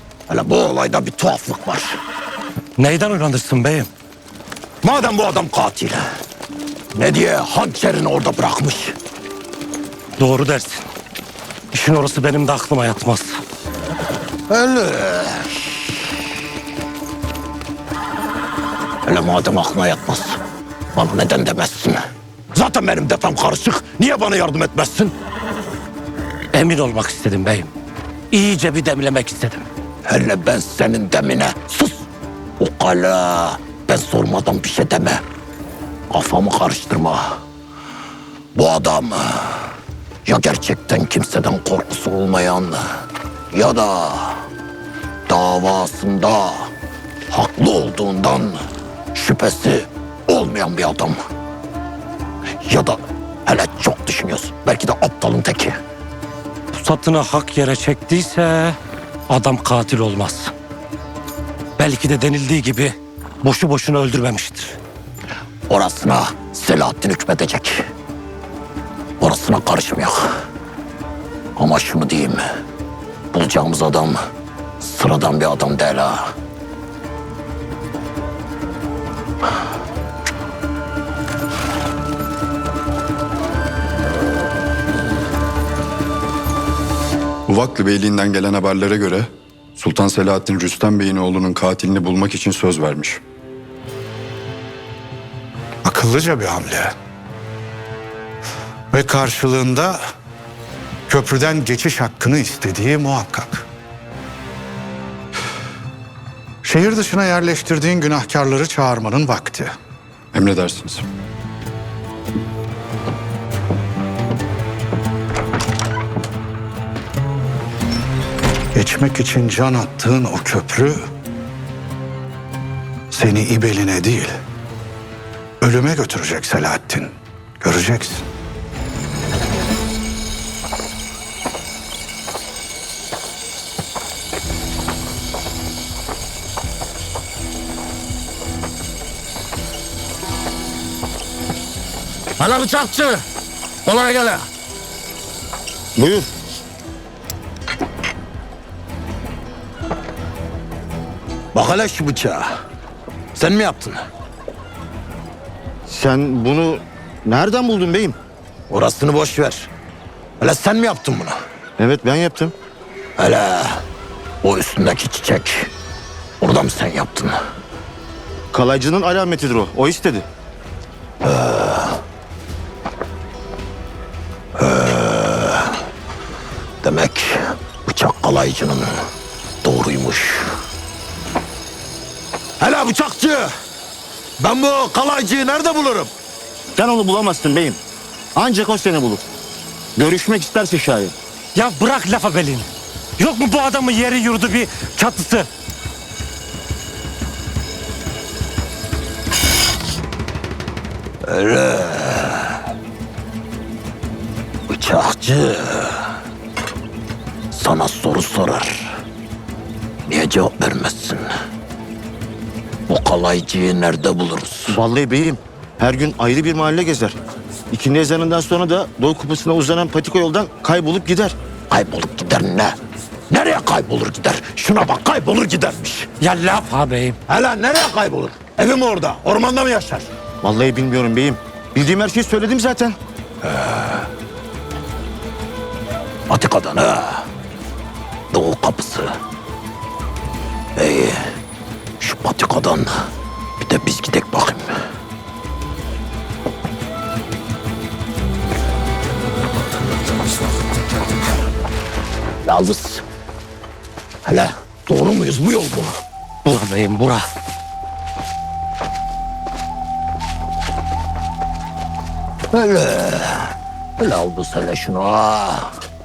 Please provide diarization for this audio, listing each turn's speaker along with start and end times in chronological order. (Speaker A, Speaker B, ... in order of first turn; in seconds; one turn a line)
Speaker A: 0.3-2.0
Speaker B: 2.8-3.9
Speaker A: 4.8-6.0
Speaker A: 6.9-8.9
Speaker B: 10.2-10.8
Speaker B: 11.7-13.4
Speaker A: 14.5-15.6
Speaker A: 19.0-20.4
Speaker A: 20.9-22.0
Speaker A: 22.5-25.1
Speaker B: 26.5-27.7
Speaker B: 28.3-29.6
Speaker A: 30.1-32.0
Speaker A: 32.6-35.2
Speaker A: 36.1-37.4
Speaker A: 38.5-39.7
Speaker A: 40.2-42.8
Speaker A: 43.5-44.4
Speaker A: 45.3-46.7
Speaker A: 47.3-48.6
Speaker A: 49.1-51.2
Speaker A: 52.6-55.8
Speaker B: 56.7-58.8
Speaker B: 59.3-60.5
Speaker B: 61.8-64.8
Speaker A: 65.7-67.8
Speaker A: 69.2-70.3
Speaker A: 71.5-72.4
Speaker A: 73.3-74.2
Speaker A: 74.8-76.3
Speaker C: 87.5-93.2
Speaker D: 95.8-96.9
Speaker D: 98.9-100.0
Speaker D: 101.1-103.7
Speaker D: 106.6-109.7
Speaker C: 110.3-111.1
Speaker D: 118.7-121.0
Speaker D: 123.1-124.3
Speaker D: 125.6-128.2
Speaker A: 142.4-143.2
Speaker A: 143.8-144.4
Speaker E: 145.9-146.3
Speaker A: 151.5-152.5
Speaker A: 153.3-154.0
Speaker E: 155.9-158.2
Speaker A: 158.7-159.7
Speaker A: 160.4-161.3
Speaker E: 161.8-162.5
Speaker A: 163.2-163.8
Speaker A: 164.4-165.7
Speaker A: 166.4-167.3
Speaker E: 168.5-170.2
Speaker A: 171.2-172.0
Speaker A: 174.6-175.8
Speaker A: 176.8-178.9
Speaker A: 179.6-180.5
Speaker A: 182.6-183.5
Speaker A: 184.4-186.1
Speaker E: 186.7-187.8
Speaker E: 188.3-189.2
Speaker E: 189.9-191.1
Speaker B: 191.5-195.5
Speaker A: 201.2-202.6
Speaker A: 204.7-206.1
Speaker A: 207.5-208.9
Speaker A: 210.1-211.3
Speaker A: 212.9-214.8
Speaker E: 214.7-217.2
Speaker E: 217.7-221.3
Speaker A: 221.7-222.7
Speaker A: 223.3-226.1
Speaker B: 226.2-227.2
Speaker A: 227.3-230.1
Speaker E: 230.4-233.0
Speaker A: 233.4-234.0
Speaker A: 236.3-237.2
Speaker A: 238.3-239.1
Speaker A: 240.8-241.2
Speaker A: 242.0-243.0
Speaker A: 243.6-244.7
Speaker A: 252.4-253.0
Speaker A: 254.2-255.9
Speaker B: 256.4-257.3
Speaker A: 262.5-265.7